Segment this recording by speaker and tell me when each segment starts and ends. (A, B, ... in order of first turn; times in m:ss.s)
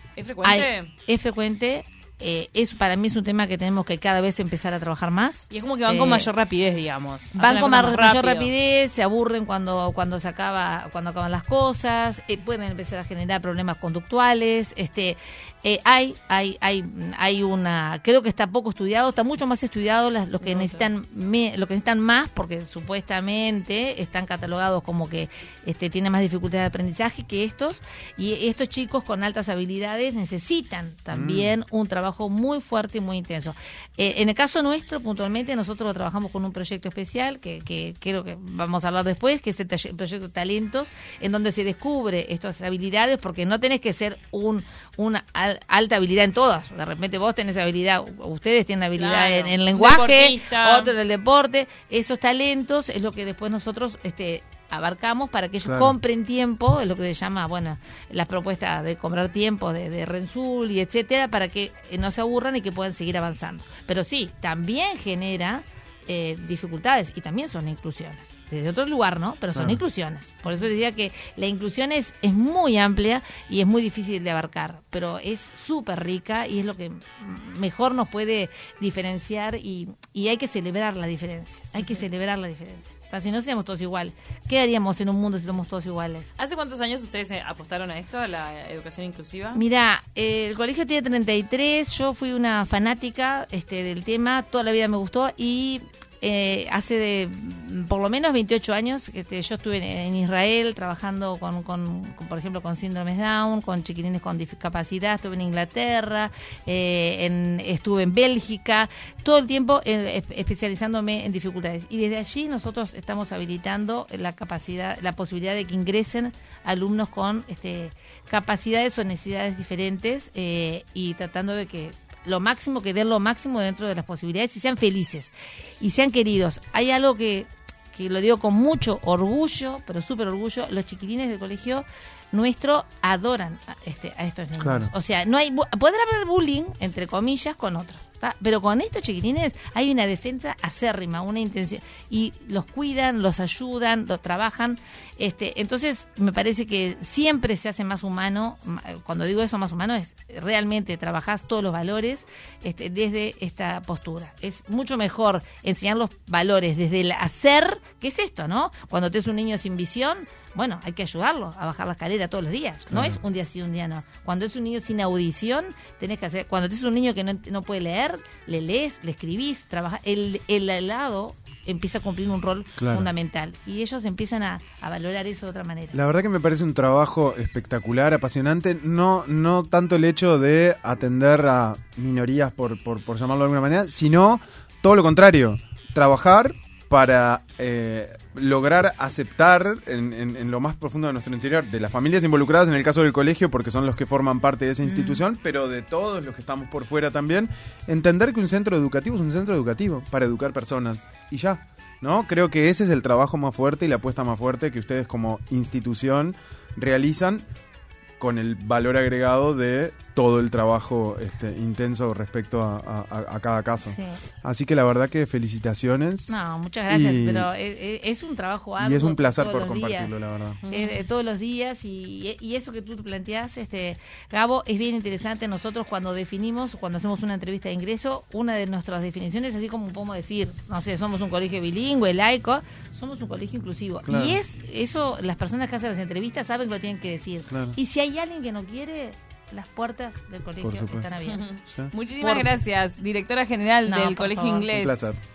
0:00.2-0:00.9 A
0:00.4-0:06.3 B
0:05.5-0:08.5 A
0:07.4-1:26.3 B
0:20.4-0:20.9 A
0:31.1-0:31.5 C
0:49.0-0:50.9 A
0:55.6-0:55.9 C
1:26.4-1:29.6 A
1:29.6-2:56.0 B
2:14.6-2:14.9 C
2:42.9-2:43.2 C
2:52.8-2:53.1 C
2:55.9-3:27.4 C
3:14.8-3:15.2 B
3:28.2-3:36.3 C
3:33.8-3:34.2 B
3:36.3-4:01.4 B
3:36.9-3:37.5 C
3:38.8-3:40.6 C
3:40.6-3:41.0 A
3:54.1-3:54.4 C
3:57.5-3:57.8 C
4:00.6-4:01.1 C
4:01.2-4:05.0 A
4:02.2-4:02.6 B
4:03.9-4:04.7 B
4:04.7-4:05.2 C